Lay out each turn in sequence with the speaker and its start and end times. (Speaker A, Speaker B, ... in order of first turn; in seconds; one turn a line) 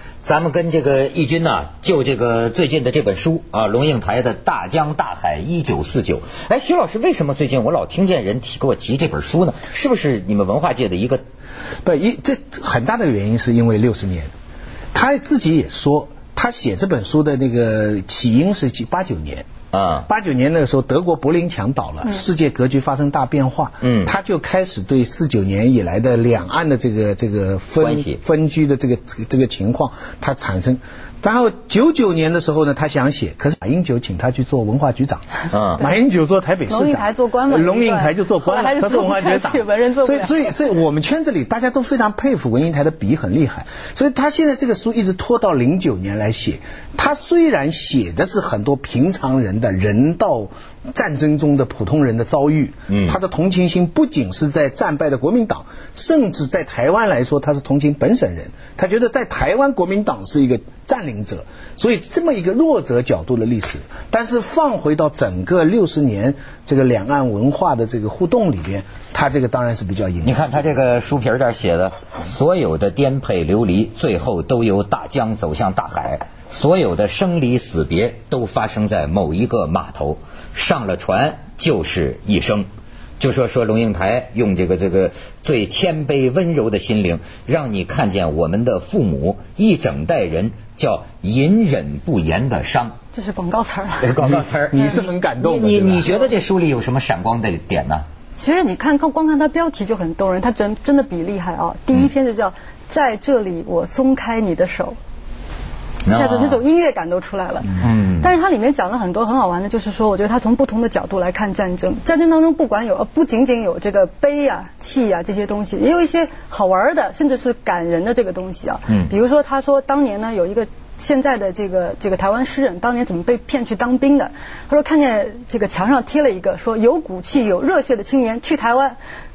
Speaker A: 0.2-11.2
Speaker B: 11.8-14.3
Speaker B: 14.9-19.4
Speaker A: 19.7-20.1
Speaker B: 20.1-35.2
Speaker A: 23.8-24.1
Speaker A: 27.8-28.2
Speaker A: 35.5-35.9
Speaker B: 35.7-70.6
Speaker C: 36.7-40.5
Speaker A: 52.9-53.2
Speaker A: 70.2-82.7
Speaker A: 83.2-93.0
Speaker C: 93.1-94.1
Speaker A: 94.0-98.0
Speaker B: 94.2-96.1
Speaker C: 98.3-105.0
Speaker A: 106.0-106.6
Speaker C: 106.1-129.0
Speaker A: 107.8-108.3